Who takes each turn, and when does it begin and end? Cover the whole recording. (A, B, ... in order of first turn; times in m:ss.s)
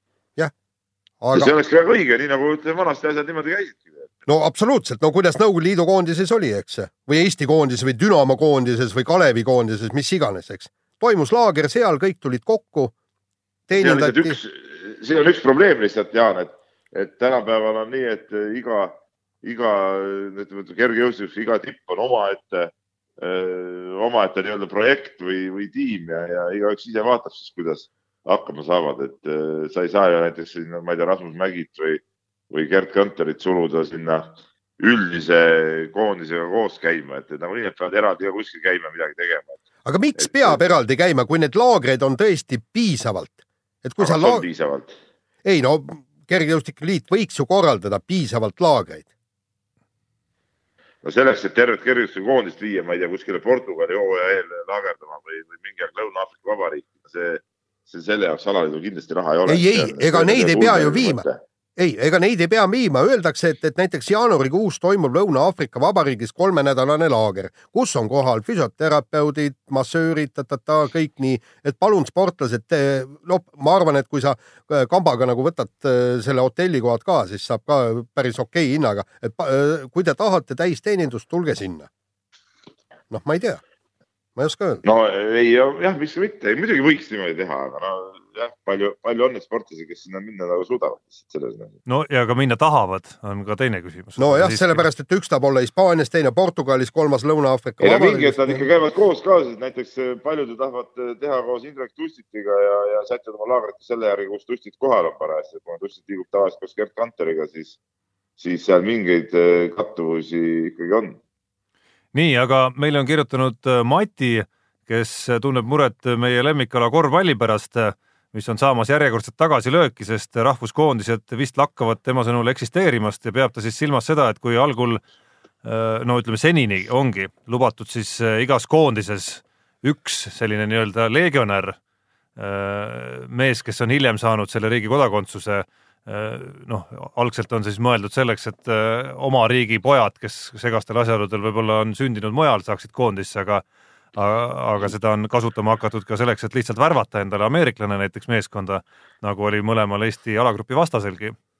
0:01.2-0:01.5 A
0:01.3-0:04.1 B
0:04.3-0:12.9 A
0:13.7-0:14.4 A
0:13.7-0:39.6 B
0:39.8-0:44.4 A
0:40.2-0:40.6 B
0:44.0-0:45.0 B
0:45.4-0:49.1 A
0:51.0-1:01.4 B
0:59.5-1:01.2 A
1:01.8-1:21.9 A
1:23.1-1:23.6 A
1:24.4-1:24.8 A
1:24.8-1:31.8 B
1:31.9-1:34.8 C
1:34.2-1:38.6 A
1:37.8-1:47.8 B
1:48.4-1:51.2 B
1:52.1-2:05.0 C
2:05.6-2:11.8 C
2:12.4-2:23.6 C
2:24.1-2:31.4 C